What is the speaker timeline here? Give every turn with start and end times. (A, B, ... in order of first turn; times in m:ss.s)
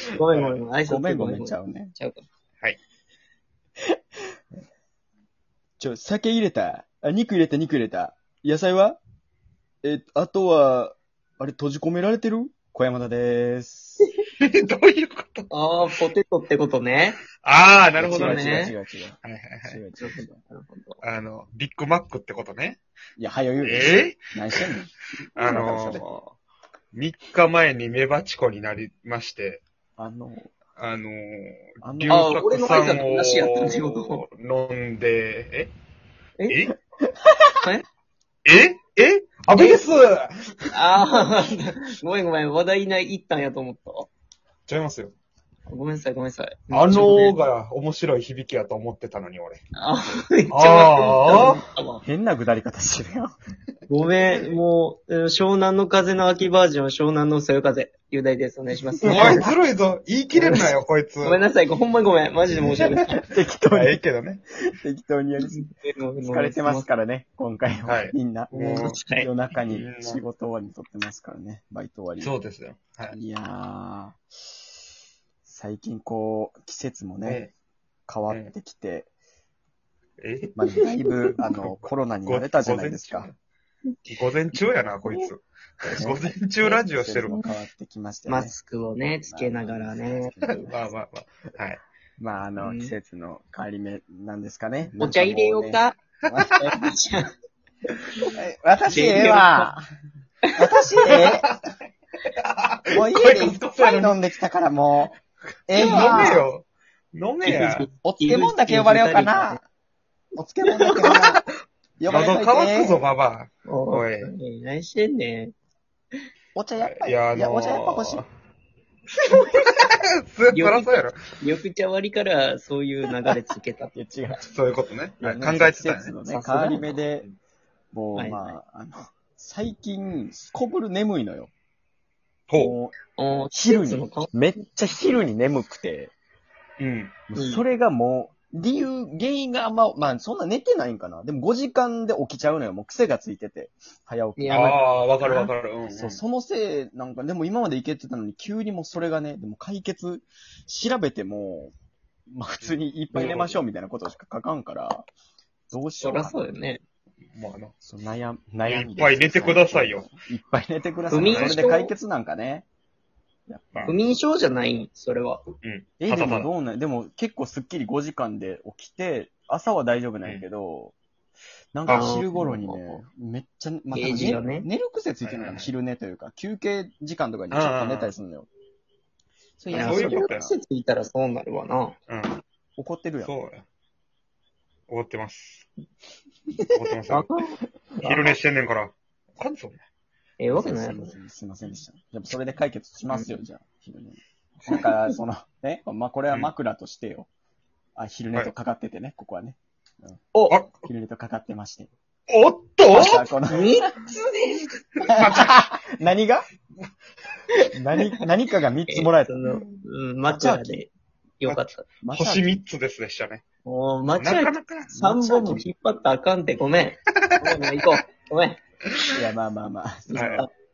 0:00.1-0:02.2 A
0:00.8-0:01.9 B
0:05.8-0:09.0 B
0:09.8-0:14.0 B
0:14.4-0:15.5 C
0:15.5-0:17.2 A
0:17.4-0:19.8 C
0:18.0-0:20.4 B
0:18.0-0:18.7 A
0:20.0-0:21.0 A
0:21.0-0:22.8 C
0:23.2-0:26.0 B
0:23.6-0:24.7 C
0:25.3-0:26.3 C
0:26.9-0:29.6 C
0:30.0-0:30.5 B
0:30.8-0:35.7 C
0:31.8-0:32.4 B
0:32.1-0:34.2 A
0:36.5-0:36.8 C
0:38.4-0:41.0 C
0:39.5-0:39.9 A
0:40.7-0:44.1 A
0:44.7-0:45.1 C
0:45.7-0:47.4 A
0:46.7-0:49.6 C
0:49.8-0:52.0 A
0:50.5-0:51.6 C
0:52.0-0:53.3 B
0:53.9-0:59.5 A
0:59.0-0:59.5 B
0:59.0-1:01.4 C
1:00.3-1:03.2 A
1:00.4-1:00.8 B
1:02.8-1:04.0 B
1:03.7-1:04.4 C
1:04.8-1:05.6 B
1:05.4-1:06.9 A
1:06.2-1:12.3 B
1:07.8-1:09.0 C
1:08.5-1:09.3 A
1:09.7-1:10.2 C
1:12.2-1:13.2 C
1:13.1-1:14.2 B
1:15.4-1:17.4 B
1:17.2-1:17.5 C
1:18.1-1:19.1 B
1:20.2-1:20.6 C
1:20.6-1:23.3 B
1:21.4-1:23.3 C
1:24.1-1:27.4 C
1:25.9-1:28.5 B
1:28.3-1:30.3 A
1:29.2-1:30.9 B
1:30.6-1:31.8 C
1:32.2-1:36.5 B
1:32.6-1:33.0 A
1:35.0-1:36.0 A
1:36.3-1:36.6 C
1:36.5-1:37.3 A
1:38.4-1:39.8 B
1:38.9-1:39.7 A
1:40.5-1:40.9 A
1:40.6-1:41.5 B
1:41.1-1:41.7 C
1:42.2-1:44.2 C
1:42.9-1:45.1 B
1:45.7-1:46.4 B
1:45.7-1:47.9 C
1:45.7-1:46.4 A
1:47.4-1:49.6 A
1:48.0-1:49.6 B
1:50.3-1:51.4 B
1:50.8-1:51.4 C
1:52.0-1:53.0 B
1:52.1-1:54.3 C
1:53.7-1:55.5 A
1:56.5-1:58.2 B
1:56.8-1:58.3 C
1:59.3-2:01.2 C
2:00.5-2:04.0 A
2:03.9-2:04.4 B
2:04.4-2:06.1 C
2:05.2-2:07.2 B
2:06.2-2:07.0 A
2:07.9-2:11.5 B
2:08.1-2:08.6 A
2:12.5-2:12.7 C
2:12.6-2:12.9 B
2:13.2-2:14.3 A
2:13.5-2:16.1 B
2:16.8-2:17.2 C
2:17.3-2:24.8 B
2:17.4-2:17.6 A
2:24.4-2:25.5 A
2:24.5-2:26.2 C
2:25.9-2:31.7 B
2:32.3-2:35.1 B
2:33.1-2:33.5 A
2:33.1-2:33.5 C
2:35.7-2:36.4 B
2:36.0-2:36.8 A
2:37.3-2:37.7 C
2:37.8-2:42.7 B
2:38.6-2:40.1 C
2:41.1-2:41.9 A
2:41.1-2:41.6 C
2:43.5-2:43.9 B
2:43.8-2:45.4 A
2:45.6-2:46.5 C
2:46.0-2:50.9 B
2:51.7-2:58.5 B
2:51.8-2:52.1 C
2:51.9-2:53.0 A
2:53.9-2:54.7 A
2:55.2-2:55.7 C
2:57.5-2:58.1 C
2:59.6-3:00.6 B
2:59.7-3:00.4 C
2:59.7-3:02.0 A
3:02.1-3:02.4 C
3:02.8-3:03.3 B
3:03.2-3:03.6 C
3:04.9-3:05.7 C
3:06.7-3:07.3 C
3:07.1-3:08.4 A
3:08.0-3:09.8 C
3:10.4-3:11.2 A
3:10.5-3:17.3 B
3:14.7-3:15.1 A
3:18.0-3:21.9 B
3:20.5-3:20.9 C
3:22.3-3:23.2 C
3:22.9-3:23.9 B
3:23.0-3:24.7 A
3:25.0-3:25.5 C
3:25.1-3:26.5 B
3:27.7-3:29.6 B
3:28.9-3:31.9 A
3:30.3-3:30.8 B
3:31.5-3:33.4 C
3:32.0-3:32.4 B
3:33.6-3:38.6 A
3:34.2-3:34.9 C
3:34.9-3:35.6 B
3:39.1-3:40.4 B
3:40.1-3:40.5 A
3:40.1-3:40.4 C